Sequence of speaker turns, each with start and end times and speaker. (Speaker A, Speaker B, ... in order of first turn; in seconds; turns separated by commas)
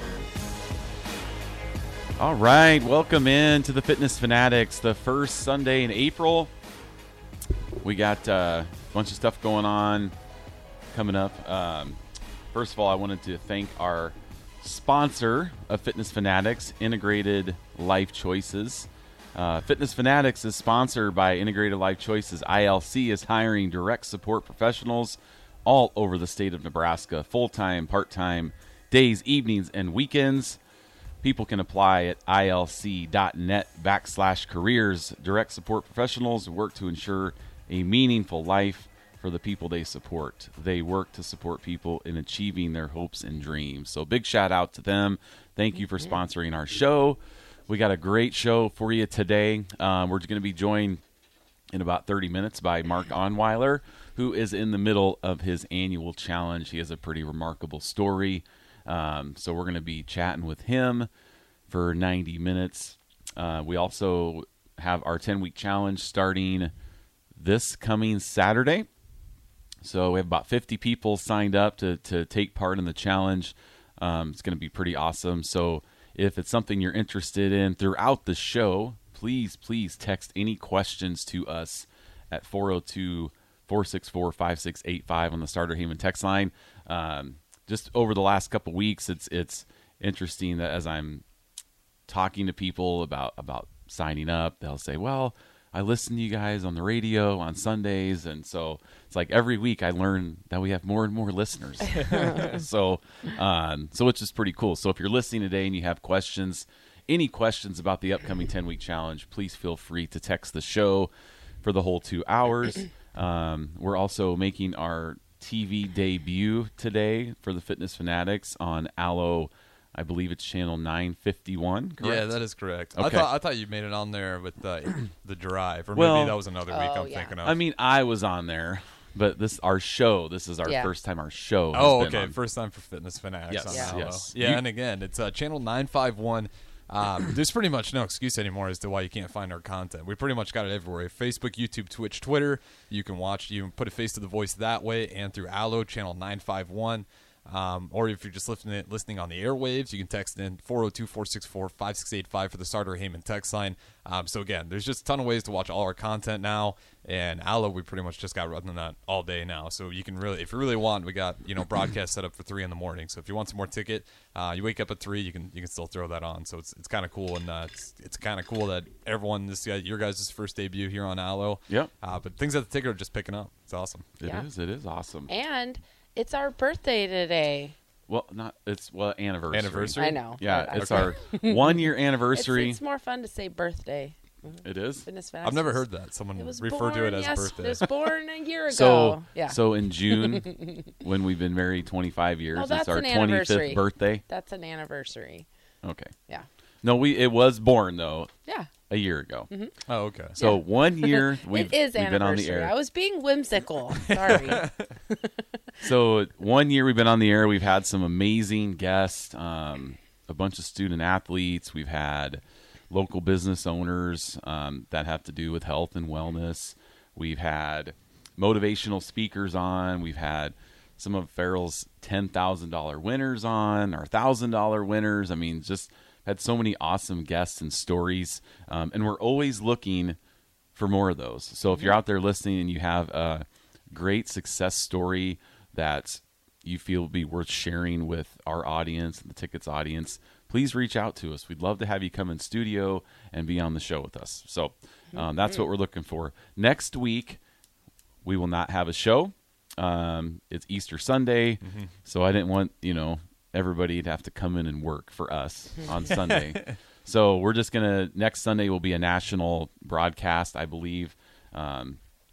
Speaker A: 2.2-6.5, Speaker A: 7.8-10.1, Speaker A: 10.9-12.0, Speaker A: 12.5-30.6, Speaker A: 31.2-51.0, Speaker A: 51.7-61.1, Speaker A: 61.7-66.7, Speaker A: 67.3-68.9, Speaker A: 69.8-91.2, Speaker A: 92.1-111.1, Speaker A: 111.6-122.3, Speaker B: 122.0-127.6, Speaker A: 123.0-123.3, Speaker A: 125.9-126.4, Speaker C: 126.7-127.3, Speaker A: 127.4-132.3, Speaker C: 130.7-130.9, Speaker B: 131.7-174.1, Speaker A: 133.5-134.6, Speaker C: 133.7-134.0, Speaker A: 174.2-175.3, Speaker C: 175.3-177.8, Speaker A: 178.1-182.8, Speaker B: 179.5-181.1, Speaker C: 180.0-185.8, Speaker A: 184.6-185.1, Speaker B: 185.4-187.8, Speaker C: 186.4-190.9, Speaker A: 188.7-194.2, Speaker C: 192.5-195.5, Speaker A: 195.8-196.1, Speaker A: 196.8-198.3, Speaker A: 198.9-199.5, Speaker B: 199.9-200.4, Speaker A: 200.4-202.7, Speaker C: 200.4-205.3, Speaker B: 204.3-204.8, Speaker A: 205.8-230.2, Speaker A: 230.8-247.4, Speaker A: 248.2-262.0, Speaker B: 251.6-251.9, Speaker B: 256.1-256.8